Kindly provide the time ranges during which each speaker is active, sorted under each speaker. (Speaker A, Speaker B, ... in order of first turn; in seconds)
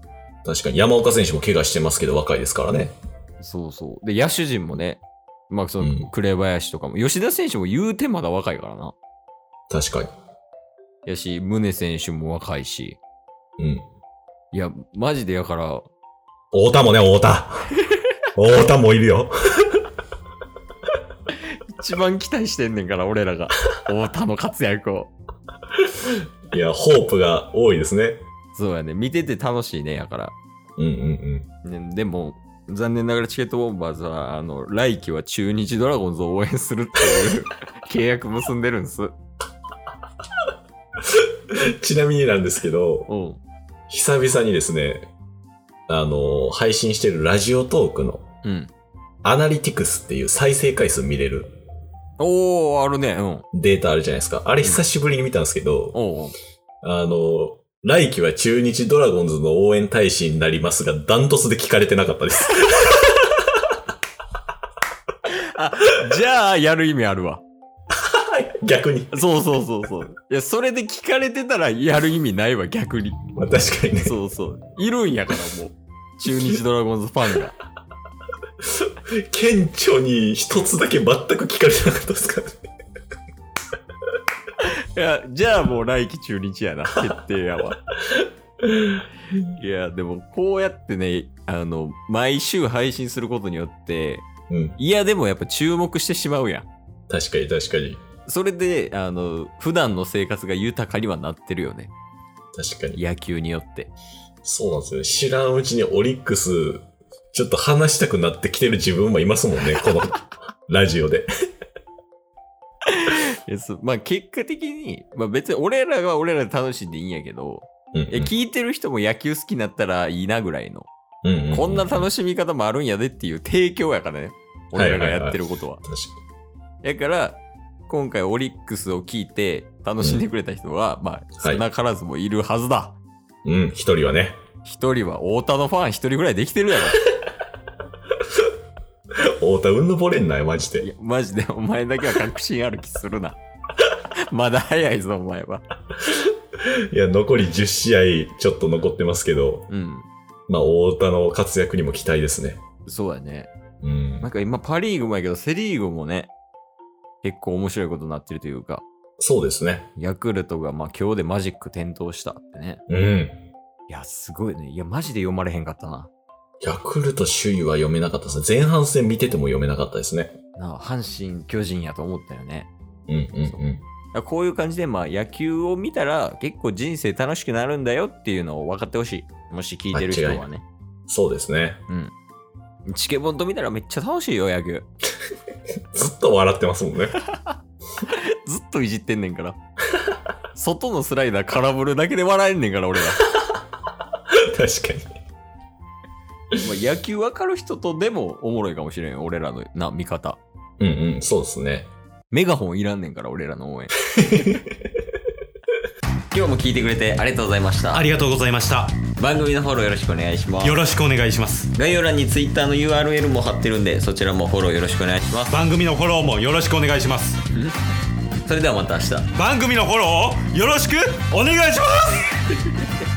Speaker A: 0.5-3.0, 5.8-6.1, 9.7-10.1, 13.6-13.8, 16.5-17.7, 18.4-19.8, 26.0-28.2, 30.8-31.5, 41.0-43.1, 43.9-45.1, 45.9-48.3, 49.2-51.6, 53.5-56.0, 56.8-63.3, 67.9-69.2, 73.3-74.1, 78.8-82.7, 88.1-89.0, 94.5-94.8, 97.1-98.0, 102.5-103.0, 104.4-111.3, 117.9-118.3, 121.2-122.0, 124.7-126.2, 131.4-131.7, 133.4-134.4, 139.3-140.9, 146.0-149.7, 150.5-152.6, 153.8-154.3, 159.2-159.9, 162.9-163.5, 166.6-170.4, 173.1-173.8, 179.9-180.4, 181.1-181.8, 185.9-187.2, 194.3-195.1, 200.8-201.9, 204.1-204.9
Speaker B: 3.4-8.9, 11.1-13.0, 14.5-15.9, 21.3-25.1, 28.5-30.4, 31.6-39.2, 43.1-43.4, 48.4-48.7, 52.2-53.5, 55.9-56.4, 65.3-67.4, 69.1-73.2, 74.0-77.6, 84.6-87.8, 89.5-94.3, 94.8-96.7, 98.3-101.9, 103.0-103.9, 112.9-120.9, 121.5-125.8, 126.8-133.0, 134.7-137.0, 140.8-143.4, 144.3-145.6, 149.7-150.1, 152.9-153.5, 154.2-156.3, 157.2-158.8, 160.0-162.8, 163.9-166.1, 170.6-172.7, 173.5-180.7, 181.9-182.1, 182.9-184.9, 187.1-189.6, 190.5-193.2, 196.5-200.4, 202.3-203.9, 206.3-208.1, 209.2-210.8, 211.7-215.6, 218.4-219.3
Speaker C: 207.9-209.0, 210.6-211.7, 215.5-217.4, 219.3-222.4